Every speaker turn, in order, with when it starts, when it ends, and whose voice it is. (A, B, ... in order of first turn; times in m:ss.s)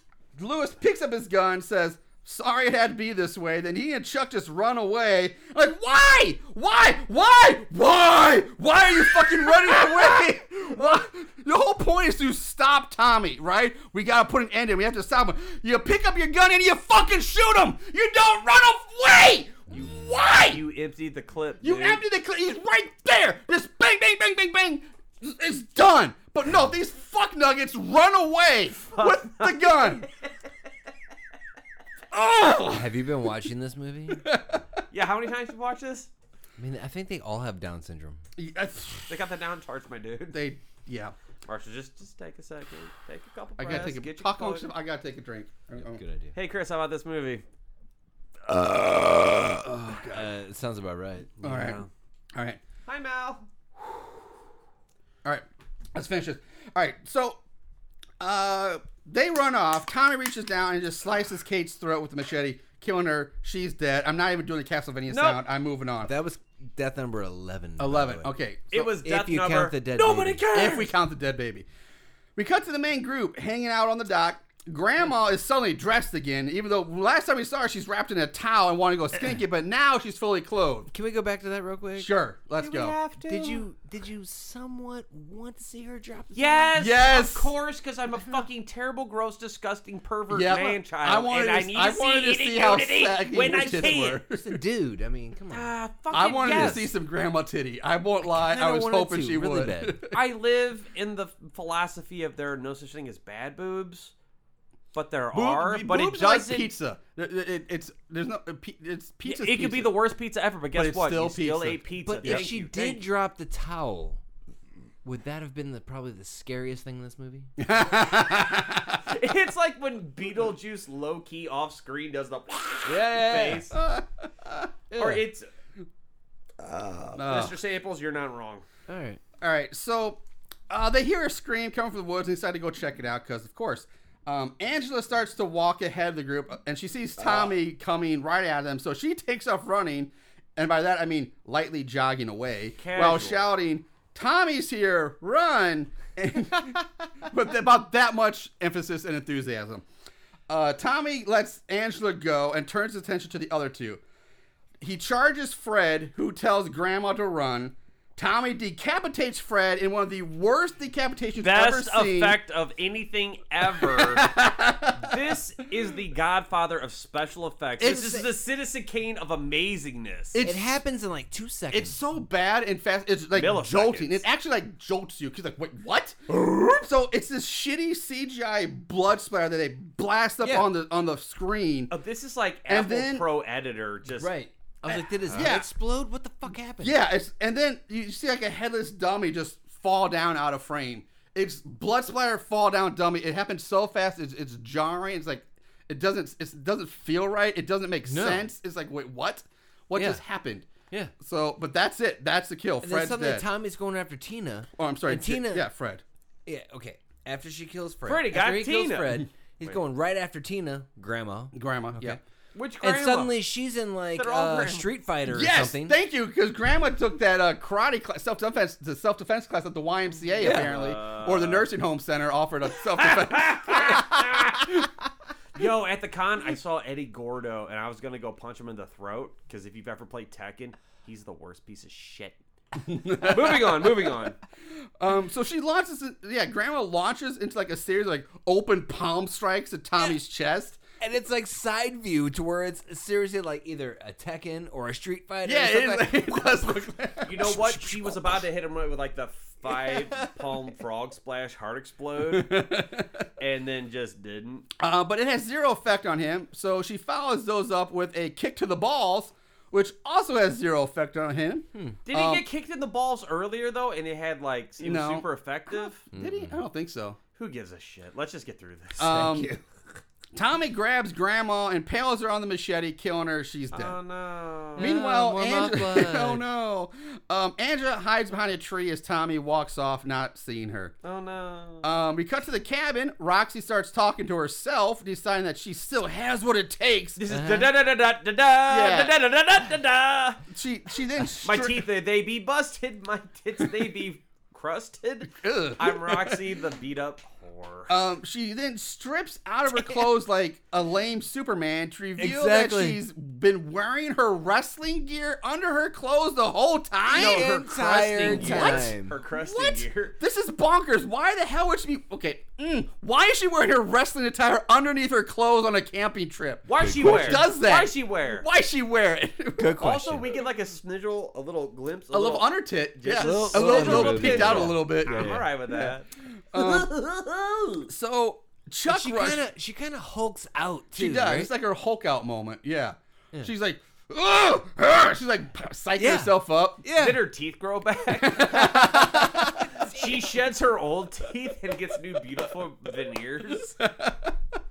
0:00.4-0:20.6 A
0:20.5-0:22.0 B
0:21.6-0:30.1 A
0:28.9-0:29.9 B
0:32.1-0:32.9 A
0:32.6-0:34.3 C
0:34.2-0:34.6 A
0:34.9-0:36.1 B
0:36.6-0:38.2 C
0:38.4-0:39.1 A
0:39.1-0:40.4 B
0:40.3-0:41.1 A
0:41.5-0:44.7 B
0:43.6-0:46.0 A
0:45.8-0:46.3 C
0:46.3-0:47.4 B
0:48.5-0:50.3 A
0:48.8-0:49.0 C
0:50.1-0:51.5 C
0:51.4-0:51.9 B
0:51.4-0:51.8 A
0:52.9-0:53.5 B
0:55.2-0:57.4 A
0:58.2-1:06.1 A
1:05.1-1:05.4 B
1:06.0-1:08.3 C
1:07.8-1:08.9 A
1:08.7-1:10.9 B
1:09.0-1:10.4 C
1:10.5-1:11.6 A
1:12.4-1:20.9 A
1:20.9-1:26.7 C
1:22.0-1:23.0 A
1:22.6-1:23.6 B
1:26.3-1:34.2 B
1:26.8-1:27.5 A
1:30.3-1:34.6 A
1:33.4-1:35.7 C
1:35.5-1:36.9 B
1:36.1-1:40.2 A
1:36.5-1:36.8 C
1:38.2-1:40.0 C
1:40.1-1:44.1 B
1:44.9-1:46.7 B
1:45.3-1:49.9 A
1:49.2-1:53.0 B
1:50.7-1:52.5 A
1:52.0-1:54.2 C
1:55.0-1:57.5 C
1:57.6-1:59.0 A
1:58.0-1:58.4 B
1:59.0-2:03.8 B
2:02.8-2:03.7 C
2:03.7-2:04.7 A
2:04.9-2:05.2 C
2:05.0-2:05.5 B
2:06.9-2:08.7 B
2:07.2-2:07.5 A
2:08.9-2:09.2 C
2:09.4-2:29.8 A
2:22.8-2:23.5 B
2:30.5-2:34.0 A
2:34.8-2:42.4 A
2:41.4-2:44.3 B
2:43.8-2:45.1 A
2:45.0-2:50.4 B
2:47.8-2:48.2 A
2:47.8-2:48.2 C
2:50.3-2:50.7 A
2:50.4-2:52.0 C
2:51.7-3:01.9 A
2:53.3-2:54.2 B
3:00.4-3:00.7 C
3:01.9-3:04.3 B
3:02.7-3:03.3 A
3:04.1-3:07.0 C
3:05.3-3:05.7 A
3:06.8-3:20.7 A
3:18.1-3:18.5 C
3:20.0-3:20.2 C
3:21.2-3:23.5 A
3:22.8-3:25.7 C
3:24.8-3:26.0 A
3:26.5-3:32.2 C
3:28.0-3:29.8 B
3:31.5-3:32.2 A
3:32.5-3:33.4 B
3:32.8-3:36.0 C
3:34.2-3:34.9 B
3:35.3-3:44.9 A
3:40.3-3:41.7 B
3:40.4-3:40.8 C
3:43.0-3:44.8 B
3:45.6-3:52.4 B
3:52.8-3:54.2 A
3:53.2-3:54.4 B
3:55.0-4:00.8 A
4:01.0-4:08.2 C
4:05.4-4:07.5 A
4:07.3-4:12.7 B
4:09.8-4:10.3 C
4:12.3-4:13.2 A
4:13.4-4:14.7 B
4:14.8-4:22.4 A
4:22.1-4:26.0 B
4:24.8-4:27.2 A
4:26.1-4:26.6 C
4:27.4-4:29.2 B
4:29.0-4:29.5 A
4:29.0-4:29.6 C
4:30.4-4:34.0 A
4:33.7-4:34.9 B
4:34.8-4:36.5 C
4:34.8-4:40.9 A
4:41.0-4:41.9 B
4:41.8-4:47.2 A
4:47.2-4:50.4 B
4:47.3-4:47.7 C
4:48.7-4:49.1 A
4:50.5-4:51.8 A
4:51.4-4:57.9 B
4:55.4-4:56.4 A
4:57.9-5:07.6 A
5:02.2-5:03.0 C
5:07.1-5:09.2 C
5:07.1-5:10.2 B
5:08.2-5:20.2 A
5:16.7-5:18.5 B
5:16.7-5:17.5 C
5:19.6-5:20.3 C
5:19.8-5:27.9 B
5:22.1-5:25.9 A
5:23.1-5:25.6 C
5:26.5-5:26.9 A
5:27.9-5:29.4 A
5:28.9-5:31.5 C
5:31.0-5:36.8 A
5:36.0-5:37.2 C
5:37.0-5:39.0 B
5:38.2-5:39.7 A
5:38.6-5:40.1 C
5:39.7-5:43.8 B
5:43.7-5:44.4 A